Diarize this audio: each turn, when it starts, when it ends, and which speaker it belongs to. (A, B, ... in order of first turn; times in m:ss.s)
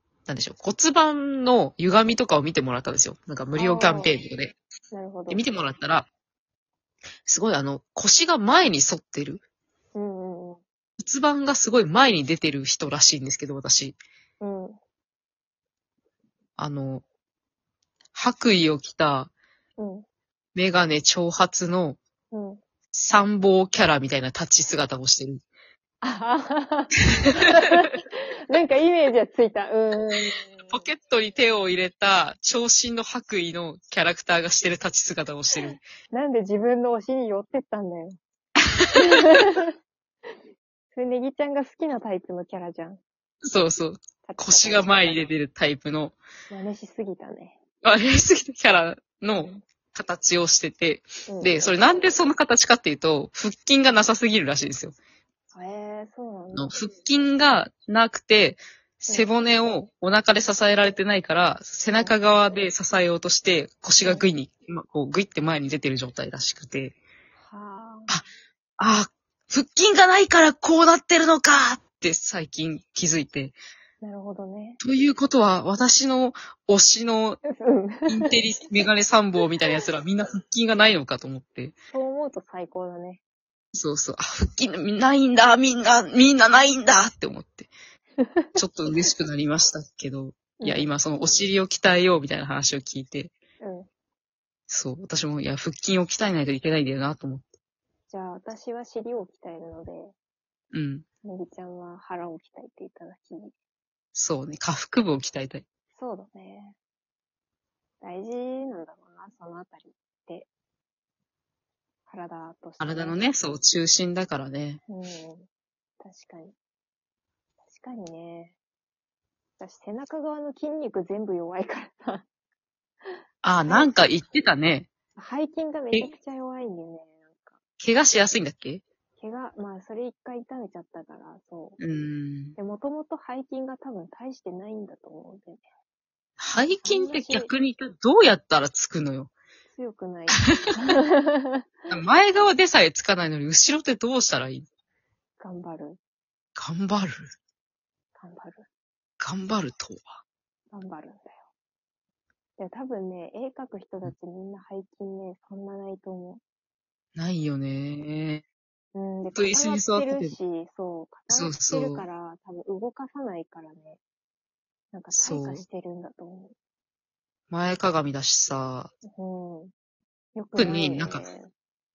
0:00.3-0:04.6 A
0:03.6-0:04.2 B
0:04.9-0:05.4 B
0:05.3-0:06.1 A
0:07.2-0:09.4 A
0:10.0-0:10.6 B
0:11.0-0:14.0 A
0:14.4-0:14.8 B
0:16.6-0:17.0 A
0:18.1-0:19.3 A
0:19.8-0:20.0 B
0:20.6-0:22.0 A
0:22.3-0:22.6 B
0:22.9-0:25.4 A
0:26.0-0:30.9 B
0:27.3-0:27.6 A
0:30.7-0:35.8 A
0:35.6-0:38.2 B
0:38.8-0:39.4 A
0:39.0-0:39.7 B
0:40.9-0:43.0 B
0:43.4-0:46.2 A
0:44.2-0:45.3 B
0:46.5-0:47.6 B
0:47.8-0:55.0 A
0:51.3-0:51.8 B
0:55.5-0:56.7 B
0:56.5-1:07.0 A
1:04.0-1:04.3 B
1:07.4-1:08.1 B
1:08.8-1:13.6 A
1:14.0-1:14.8 B
1:14.8-1:17.4 A
1:17.4-1:18.4 B
1:18.1-1:21.7 A
1:21.9-1:23.2 B
1:23.7-1:27.7 A
1:28.2-1:29.1 B
1:28.6-1:33.3 A
1:30.6-1:31.4 B
1:33.6-1:33.9 B
1:34.7-1:37.5 A
1:38.1-1:40.2 B
1:40.7-1:41.1 A
1:41.2-1:43.5 B
1:44.2-1:45.6 A
1:46.0-1:46.8 B
1:48.0-1:50.5 B
1:52.1-1:53.2 B
1:52.8-1:54.8 A
1:54.9-1:55.5 B
1:56.0-1:56.6 B
1:57.7-1:58.6 B
1:59.6-2:02.2 B
2:03.1-2:04.1 B
2:03.4-2:04.9 A
2:05.2-2:07.6 B
2:07.8-2:08.8 A
2:09.2-2:11.8 B
2:11.8-2:12.6 A
2:12.6-2:15.6 B
2:16.4-2:19.3 A
2:16.7-2:17.5 B
2:19.7-2:21.7 B
2:20.4-2:21.0 A
2:21.9-2:24.7 A
2:25.4-2:26.0 B
2:26.6-2:27.3 A
2:28.2-2:28.7 B
2:29.2-2:30.1 A
2:30.7-2:31.5 B
2:32.6-2:36.4 B
2:37.2-2:38.4 A
2:38.9-2:44.0 B
2:39.4-2:40.4 A
2:41.3-2:42.1 A
2:44.9-2:46.5 B
2:45.1-2:45.6 A
2:47.5-2:48.9 A
2:49.0-2:49.7 B
2:50.4-2:51.5 B
2:50.6-2:51.2 A